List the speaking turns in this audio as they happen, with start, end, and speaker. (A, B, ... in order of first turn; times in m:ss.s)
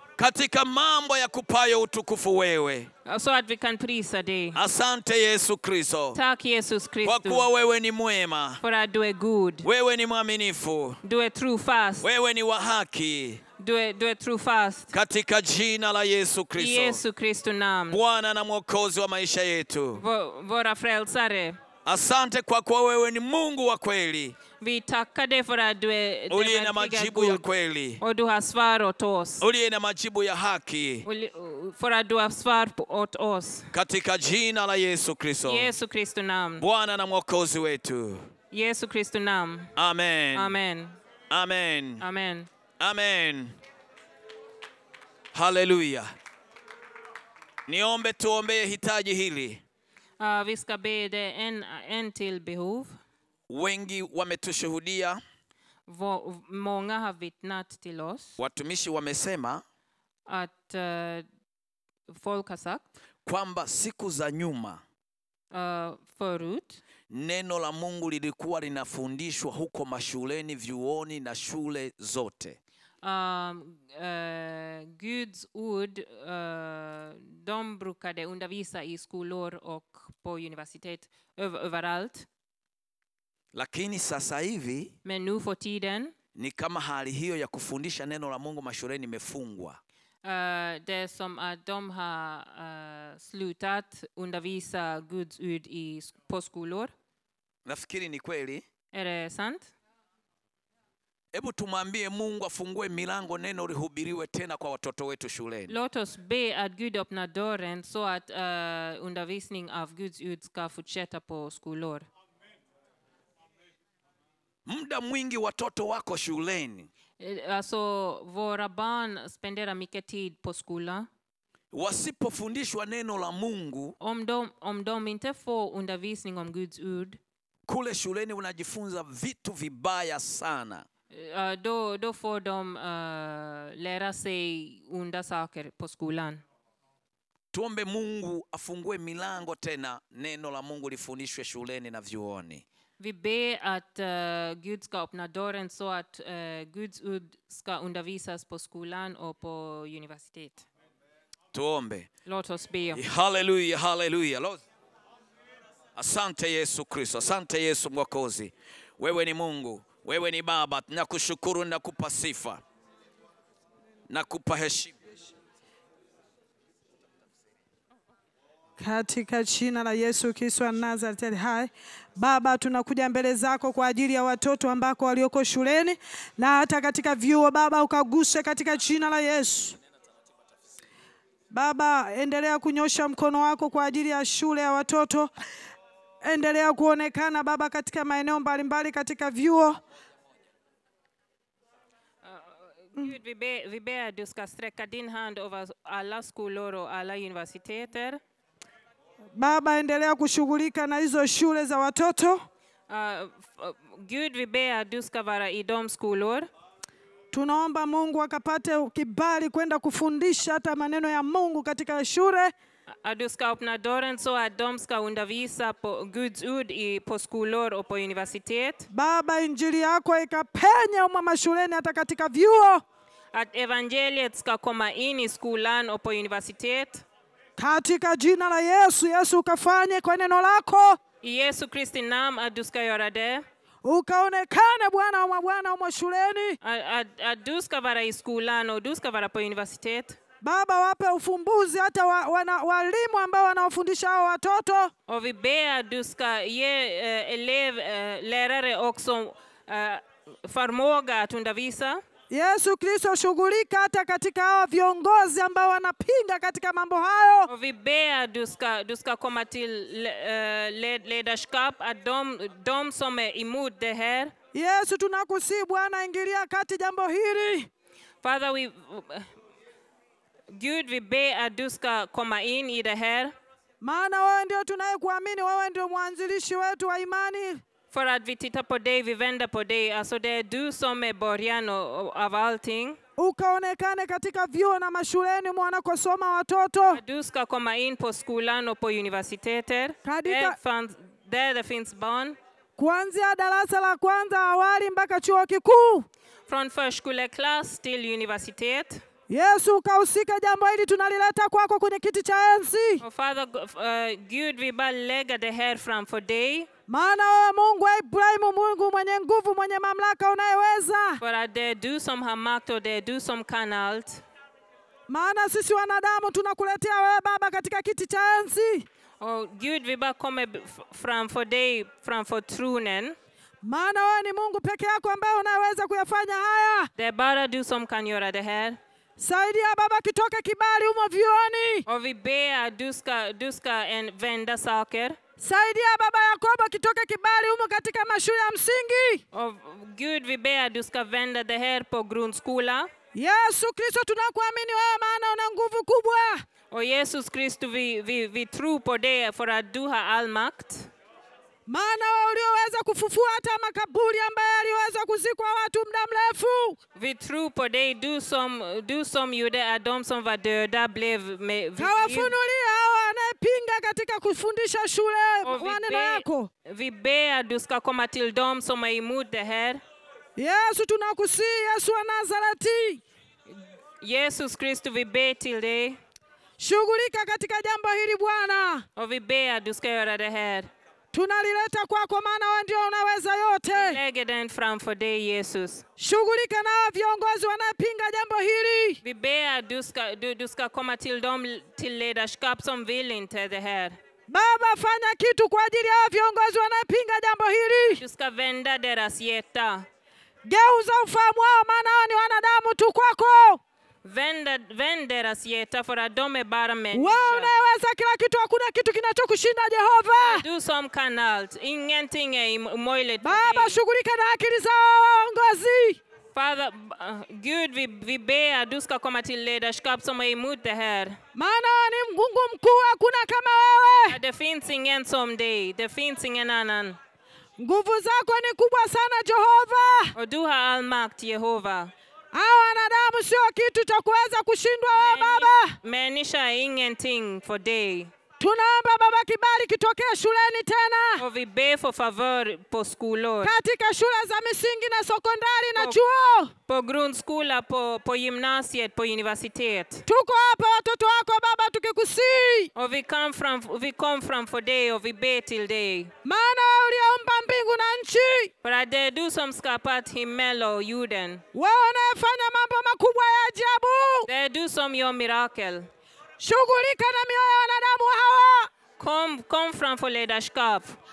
0:00.2-0:02.9 A
0:03.1-0:04.6 B
0:04.6-0:06.2 A
0:06.1-0:07.5 B
0:07.0-0:08.6 A
0:08.6-0:09.7 B
0:09.6-0:11.0 A
0:11.0-0:12.1 B
0:12.0-0:13.4 A
0:13.6-0:14.9 B
0:14.9-0:17.0 A
0:16.6-0:18.0 B
0:17.9-0:20.0 A
0:20.0-0:21.6 B
0:21.8-0:24.4 A
0:24.6-0:27.4 B
0:26.3-0:28.0 A
0:28.0-0:29.4 B
0:29.4-0:31.0 A
0:31.1-0:33.7 B
0:33.7-0:35.7 A
0:35.4-0:36.6 B
0:36.6-0:38.3 A
0:38.5-0:39.7 B
0:39.8-0:40.6 A
0:40.3-0:41.0 B
0:41.3-0:42.0 A
0:42.0-0:42.5 B
0:42.8-0:43.6 A
0:45.3-0:46.1 A
0:47.7-0:49.6 A
0:50.2-0:52.9 B
0:53.5-0:55.2 A
0:55.9-0:58.4 B
0:58.4-0:59.6 A
1:00.3-1:01.2 B
1:02.1-1:02.9 B
1:03.2-1:04.8 A
1:05.5-1:06.8 B
1:07.1-1:12.6 A
1:13.0-1:22.3 B
1:23.5-1:24.9 A
1:25.0-1:26.1 B
1:26.4-1:29.8 A
1:30.2-1:36.9 B
1:37.7-1:38.6 A
1:38.9-1:39.7 B
1:41.3-1:45.8 A
1:45.7-1:52.1 B
1:54.7-1:56.9 A
1:57.2-2:01.1 B
2:01.7-2:04.0 A
2:04.0-2:07.2 B
2:07.7-2:10.9 A
2:11.1-2:16.4 B
2:17.5-2:22.6 A
2:23.0-2:30.6 B
2:31.5-2:32.1 A
2:32.3-2:33.0 B
2:32.9-2:34.6 A
2:36.0-2:42.6 A
2:44.1-2:45.0 A
2:48.8-2:59.8 C
3:01.5-3:05.3 C
3:06.2-3:09.8 C
3:12.2-3:18.2 B
3:19.4-3:22.5 C
3:22.9-3:26.5 B
3:27.3-3:32.5 C
3:33.0-3:38.9 B
3:38.9-3:42.8 C
3:43.3-3:47.0 B
3:47.6-3:51.0 C
3:51.2-3:53.4 B
3:53.8-3:56.6 C
3:56.6-4:00.2 B
4:00.4-4:04.9 C
4:05.1-4:12.0 B
4:12.3-4:17.5 C
4:17.5-4:24.3 B
4:24.5-4:27.7 C
4:28.2-4:29.3 B
4:30.5-4:33.3 B
4:33.8-4:37.6 C
4:37.9-4:43.0 B
4:43.2-4:47.0 C
4:46.9-4:52.4 B
4:50.0-4:50.6 C
4:52.8-4:56.1 C
4:56.5-4:59.0 B
4:59.3-5:03.0 C
5:03.0-5:06.7 B
5:06.9-5:11.2 C
5:11.2-5:14.2 B
5:15.1-5:18.9 C
5:19.2-5:23.2 B
5:23.6-5:26.9 C
5:27.0-5:28.8 B
5:29.2-5:31.8 C
5:31.9-5:35.2 B
5:35.4-5:39.2 C
5:39.3-5:42.9 B
5:43.2-5:46.4 C
5:46.7-5:50.9 B
5:51.7-5:56.8 C
5:57.0-6:02.3 B
6:01.8-6:06.5 C
6:05.4-6:09.8 B
6:10.4-6:13.0 C
6:13.5-6:16.0 B
6:16.6-6:18.9 C
6:19.0-6:20.7 B
6:21.1-6:24.0 C
6:23.7-6:25.8 B
6:26.0-6:29.0 C
6:29.0-6:34.0 B
6:34.3-6:38.0 C
6:37.9-6:39.9 B
6:40.4-6:43.6 C
6:44.0-6:47.5 B
6:46.9-6:50.4 C
6:50.2-6:53.8 B
6:53.2-6:56.0 C
6:56.4-7:01.2 B
7:01.4-7:04.2 C
7:04.1-7:07.0 B
7:07.6-7:10.2 C
7:10.2-7:11.9 B
7:12.3-7:15.8 C
7:14.9-7:18.1 B
7:18.4-7:21.2 C
7:21.2-7:23.5 B
7:23.4-7:26.5 C
7:26.7-7:30.0 B
7:30.1-7:32.7 C
7:32.8-7:36.1 B
7:36.2-7:38.5 C
7:38.6-7:41.4 B
7:41.5-7:44.3 C
7:44.3-7:45.9 B
7:46.4-7:48.7 C
7:49.0-7:51.0 B